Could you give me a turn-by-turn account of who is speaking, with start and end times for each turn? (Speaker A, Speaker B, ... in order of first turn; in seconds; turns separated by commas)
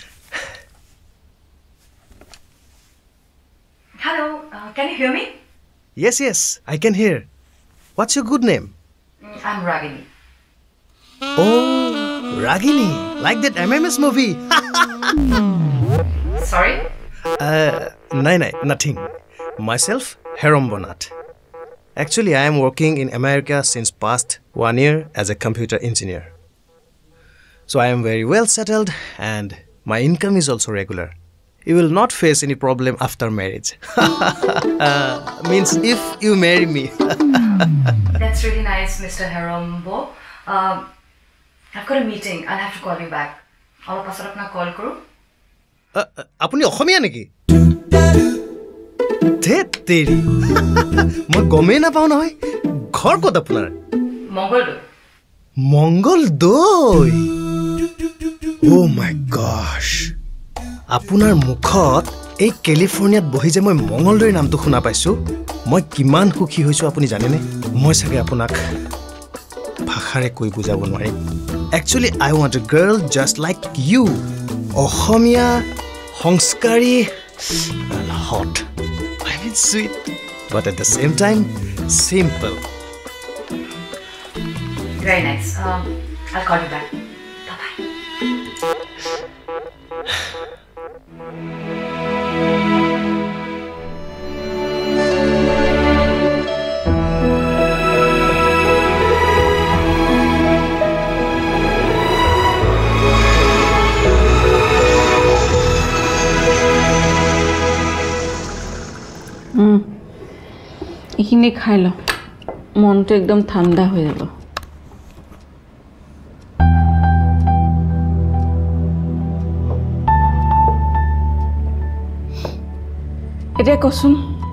Speaker A: 4.0-5.3, Speaker B: 6.0-7.3, Speaker B: 8.0-8.7, Speaker A: 9.2-10.1, Speaker B: 11.4-15.1, Speaker A: 16.4-16.8, Speaker B: 17.4-19.1, Speaker B: 19.6-21.1, Speaker B: 22.0-26.3, Speaker B: 27.7-31.1, Speaker B: 31.7-37.7, Speaker A: 38.1-40.9, Speaker A: 41.7-45.0, Speaker B: 46.0-47.3, Speaker B: 49.4-52.3, Speaker B: 52.9-53.7, Speaker A: 54.3-54.8, Speaker B: 55.7-57.3, Speaker B: 58.6-60.1, Speaker B: 60.9-65.2, Speaker B: 65.7-68.6, Speaker B: 69.9-71.2, Speaker B: 71.8-74.2, Speaker B: 74.8-75.6, Speaker B: 76.2-78.6, Speaker B: 79.2-79.9, Speaker B: 80.5-82.6, Speaker A: 85.0-86.9, Speaker A: 87.5-87.8, Speaker C: 111.2-112.0, Speaker C: 112.8-114.3, Speaker C: 123.6-124.2